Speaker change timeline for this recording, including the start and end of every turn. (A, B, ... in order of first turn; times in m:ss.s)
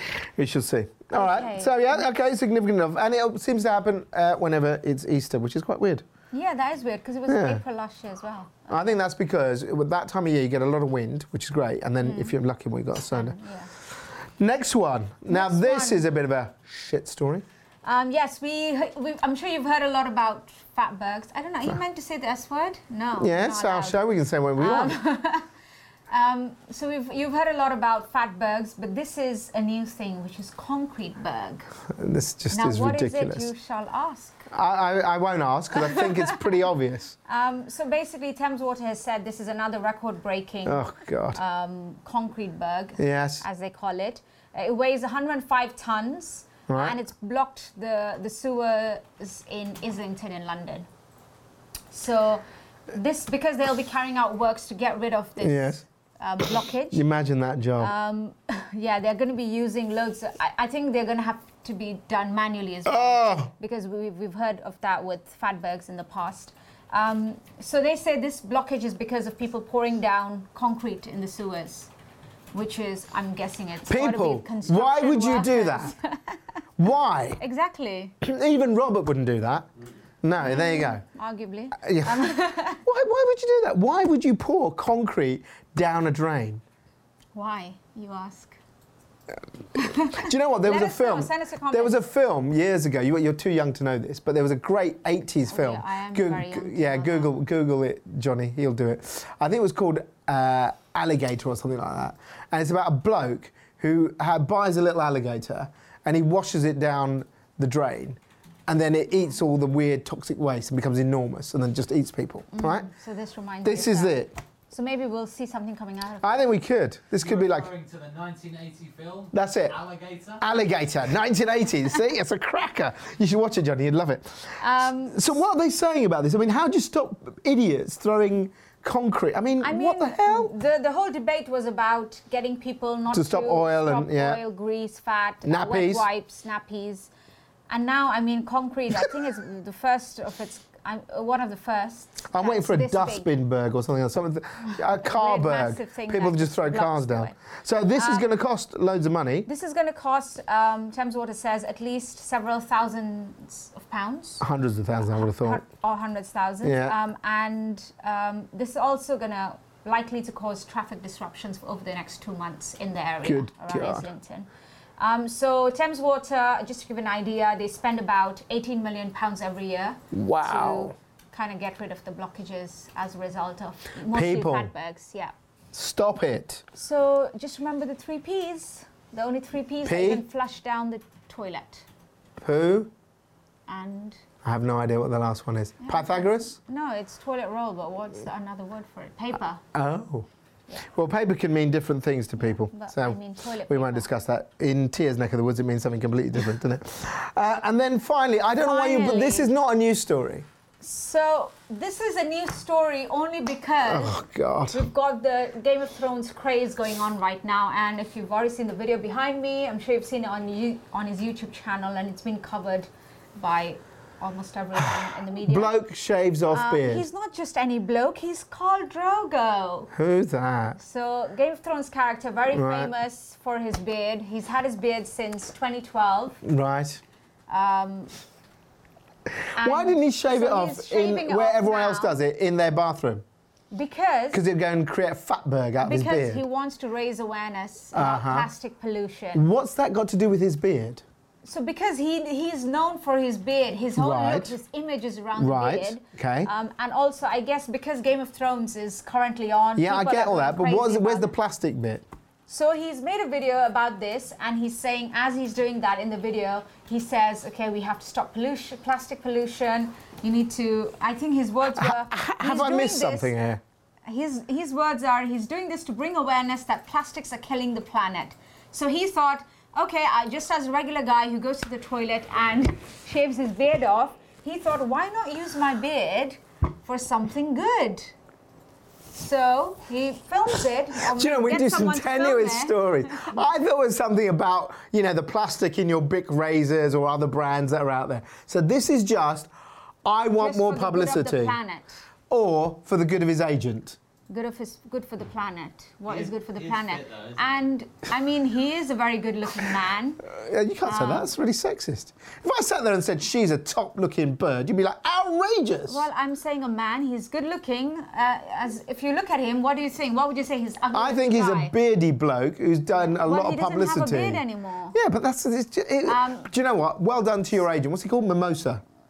0:00.1-0:06.0 A
0:01.1-0:02.1 B
0:06.3-0:08.9 B
0:07.3-0:07.6 A
0:08.7-0:13.4 A
0:12.0-0:12.3 B
0:13.1-0:13.7 B
0:14.4-0:17.4 A
0:15.3-0:16.0 B
0:17.8-0:24.0 B
0:23.2-0:25.0 A
0:24.6-0:25.4 B
0:26.1-0:31.7 B
0:31.9-0:33.5 A
0:32.5-0:34.4 B
0:34.5-0:37.1 A
0:35.8-0:36.4 B
0:37.3-0:50.9 B
0:40.6-0:41.4 A
0:43.0-0:43.4 A
0:46.7-0:47.0 A
0:51.9-0:57.0 B
0:55.4-0:55.8 A
0:56.9-0:57.9 A
0:57.8-1:11.9 B
1:02.8-1:03.5 A
1:12.5-1:16.4 B
1:13.9-1:15.9 A
1:16.8-1:17.4 A
1:17.4-1:18.1 B
1:18.2-1:19.7 A
1:20.2-1:21.0 A
1:20.4-1:22.8 B
1:21.8-1:26.6 A
1:27.3-1:28.6 B
1:29.7-1:32.0 B
1:30.1-1:52.9 A
1:35.5-1:37.3 B
1:52.5-1:56.5 B
1:53.6-1:54.3 A
1:56.2-1:57.7 A
1:57.2-2:00.4 C
1:59.3-1:59.8 A
2:00.4-2:10.5 A
2:04.6-2:05.4 B
2:09.6-2:17.1 B
2:13.1-2:14.4 A
2:15.4-2:16.0 A
2:17.7-2:23.3 B
2:22.3-2:29.5 A
2:25.0-2:27.3 B
2:27.9-2:28.3 B
2:29.4-2:34.4 B
2:34.4-2:35.6 A
2:35.0-2:55.3 B
2:36.6-2:37.0 A
2:43.2-2:44.0 A
2:50.1-2:50.9 A
2:54.1-2:54.7 A
2:55.7-2:56.6 A
2:56.7-3:01.8 B
2:59.8-3:00.2 A
3:02.4-3:02.9 A
3:03.7-3:04.2 B
3:04.4-3:06.6 A
3:05.8-3:09.6 B
3:09.7-3:10.3 A
3:10.8-3:20.4 A
3:12.7-3:14.1 B
3:18.6-3:19.5 B
3:20.8-3:24.2 B
3:23.8-3:24.8 A
3:24.7-3:35.7 B
3:35.4-3:37.0 A
3:36.5-3:39.9 B
3:39.9-3:40.8 A
3:40.8-3:46.4 B
3:42.5-3:42.9 A
3:46.4-3:47.0 A
3:47.5-3:48.1 B
3:49.6-3:52.1 B
3:49.6-3:53.2 A
3:53.7-3:54.4 B
3:54.3-3:56.4 A
3:55.8-3:59.4 B
3:57.9-3:58.5 A
3:59.3-4:01.0 A
4:01.4-4:11.3 B
4:04.0-4:04.6 A
4:05.4-4:06.5 A
4:09.8-4:12.0 A
4:12.5-4:23.3 B
4:21.8-4:23.6 A
4:24.0-4:38.1 B
4:39.1-4:43.3 B
4:41.0-4:49.5 A
4:50.0-4:51.6 A
4:50.4-4:52.0 B
4:52.3-4:54.0 A
4:54.3-5:00.2 B
4:56.1-4:57.4 C
5:00.3-5:06.0 A
5:00.8-5:01.3 B
5:05.8-5:11.7 B
5:10.9-5:18.8 A
5:12.9-5:15.0 B
5:16.0-5:16.5 B